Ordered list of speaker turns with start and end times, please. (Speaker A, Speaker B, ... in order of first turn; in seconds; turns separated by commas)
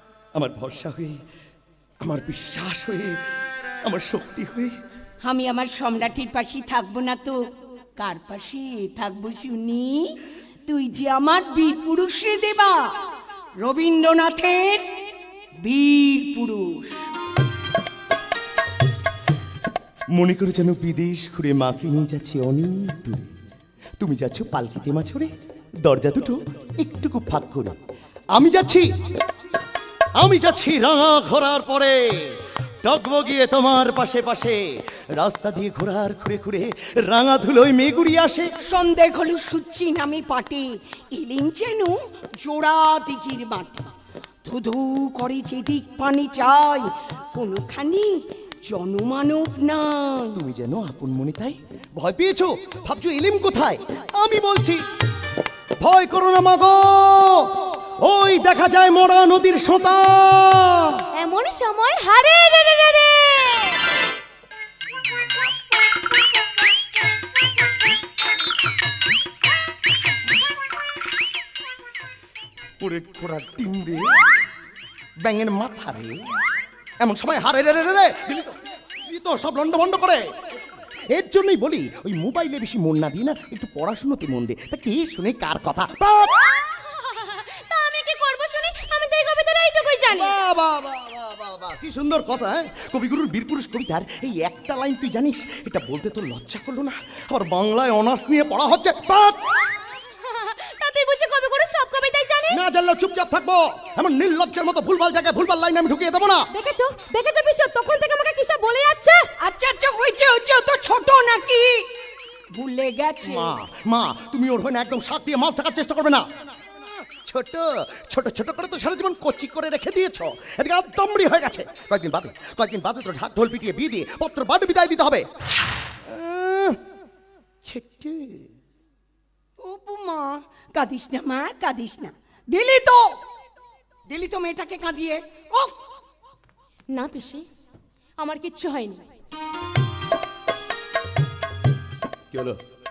Speaker A: 0.4-1.2, Speaker A: 2.0-3.1, Speaker A: 3.8-4.7, Speaker B: 5.2-7.4, Speaker B: 8.0-10.2, Speaker B: 10.7-12.9, Speaker B: 13.6-14.9, Speaker B: 15.6-17.1, Speaker A: 20.1-23.3, Speaker A: 24.0-25.3, Speaker A: 25.8-27.8, Speaker A: 28.3-28.9, Speaker A: 30.2-34.6, Speaker A: 35.2-38.5, Speaker B: 38.6-43.9, Speaker B: 44.4-48.1, Speaker B: 48.6-50.4, Speaker A: 50.3-54.8, Speaker A: 55.8-61.0, Speaker C: 61.1-63.8, Speaker A: 72.8-74.2, Speaker A: 75.2-76.2, Speaker A: 77.0-80.2, Speaker A: 81.1-86.2, Speaker C: 86.2-90.3, Speaker A: 90.1-99.4, Speaker C: 100.1-102.6, Speaker A: 102.5-106.5, Speaker C: 106.5-109.3, Speaker B: 109.4-111.9, Speaker B: 112.5-113.5, Speaker A: 113.2-116.2, Speaker A: 117.2-125.2, Speaker A: 126.0-126.8, Speaker A: 127.6-128.4, Speaker B: 129.6-133.2, Speaker B: 134.1-135.8, Speaker C: 136.9-137.4, Speaker C: 138.2-139.1, Speaker A: 142.3-142.6